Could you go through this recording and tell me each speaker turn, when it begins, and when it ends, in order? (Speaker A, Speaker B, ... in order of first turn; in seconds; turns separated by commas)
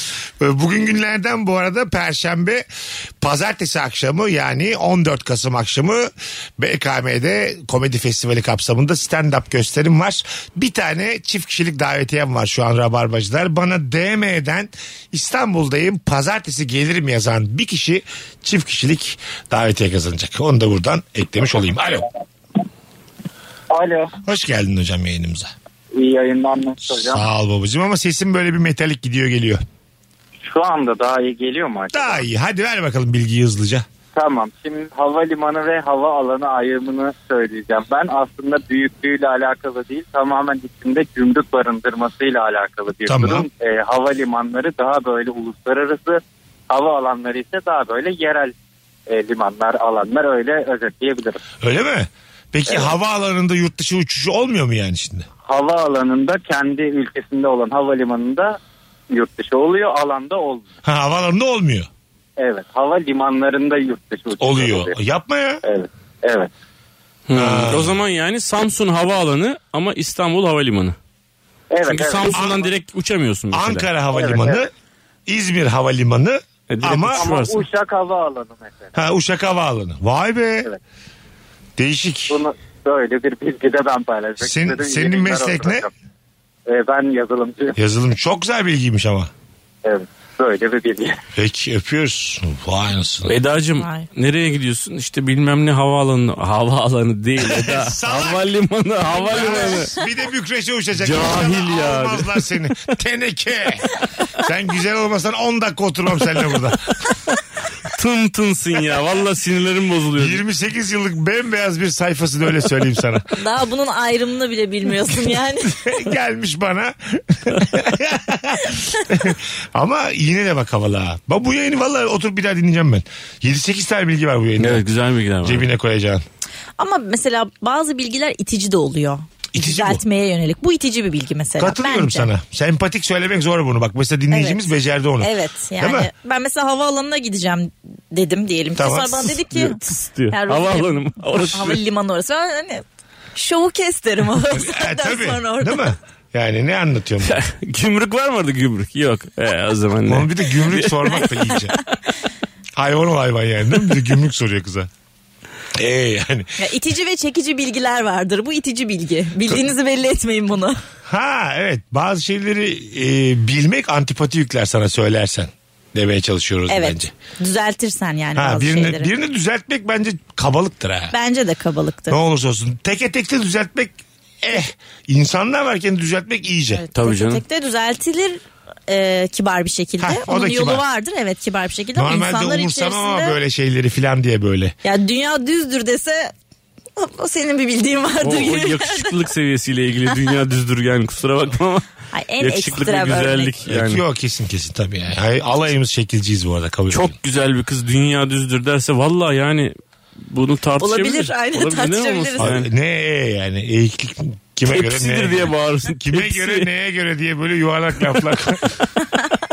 Speaker A: 0.4-2.6, Speaker A: 3.2-22.1, Speaker B: 23.7-24.1, Speaker A: 24.2-25.5, Speaker B: 25.9-27.2, Speaker A: 26.8-29.6, Speaker B: 30.4-32.2, Speaker A: 31.9-33.9, Speaker B: 34.1-48.5, Speaker A: 43.1-43.5, Speaker B: 49.1-51.4, Speaker A: 51.6-55.3, Speaker B: 52.7-53.0, Speaker B: 55.5-58.6, Speaker B: 59.1-60.7, Speaker A: 60.8-61.9, Speaker B: 62.4-65.0, Speaker A: 64.4-65.6, Speaker B: 65.6-66.5, Speaker C: 67.3-71.0, Speaker A: 67.3-68.0, Speaker B: 71.7-72.5, Speaker C: 71.9-73.9, Speaker A: 72.3-72.7, Speaker A: 73.5-74.7, Speaker B: 74.1-74.7, Speaker A: 75.3-77.2, Speaker C: 76.7-77.7, Speaker B: 77.1-78.9, Speaker A: 79.0-80.7, Speaker A: 81.8-82.4, Speaker B: 82.3-85.9, Speaker A: 84.4-85.9, Speaker B: 86.7-87.8, Speaker A: 87.8-89.3, Speaker B: 89.8-91.2, Speaker A: 91.3-93.4, Speaker C: 93.3-99.9, Speaker D: 93.8-94.1, Speaker A: 97.4-98.4, Speaker A: 99.1-103.9, Speaker D: 99.4-99.7, Speaker C: 101.0-102.5, Speaker A: 104.4-106.9, Speaker C: 107.9-110.4, Speaker A: 110.2-113.2, Speaker D: 113.4-115.7, Speaker A: 115.3-124.8, Speaker C: 124.6-125.7, Speaker A: 125.4-126.2, Speaker D: 126.8-132.3, Speaker A: 129.5-130.0, Speaker A: 131.6-136.1, Speaker D: 134.3-134.6, Speaker D: 135.2-142.8, Speaker A: 138.8-139.4, Speaker C: 139.5-141.8, Speaker D: 143.3-145.9, Speaker A: 144.5-147.4, Speaker C: 147.2-151.2, Speaker A: 150.1-151.8, Speaker A: 152.8-154.9, Speaker A: 155.8-156.6, Speaker D: 156.6-160.8, Speaker A: 161.1-167.1, Speaker D: 166.7-169.1, Speaker A: 168.4-171.1, Speaker D: 171.1-172.2, Speaker A: 172.1-176.8, Speaker D: 176.7-183.4, Speaker C: 176.9-177.4, Speaker A: 180.0-180.8, Speaker A: 182.0-184.8, Speaker D: 184.8-186.3, Speaker D: 187.0-189.1, Speaker C: 188.2-191.8, Speaker D: 192.1-193.5, Speaker C: 192.4-194.0, Speaker A: 193.7-197.1, Speaker C: 196.9-199.7, Speaker C: 200.3-202.7, Speaker D: 200.8-202.5, Speaker A: 202.4-208.8, Speaker C: 204.7-206.7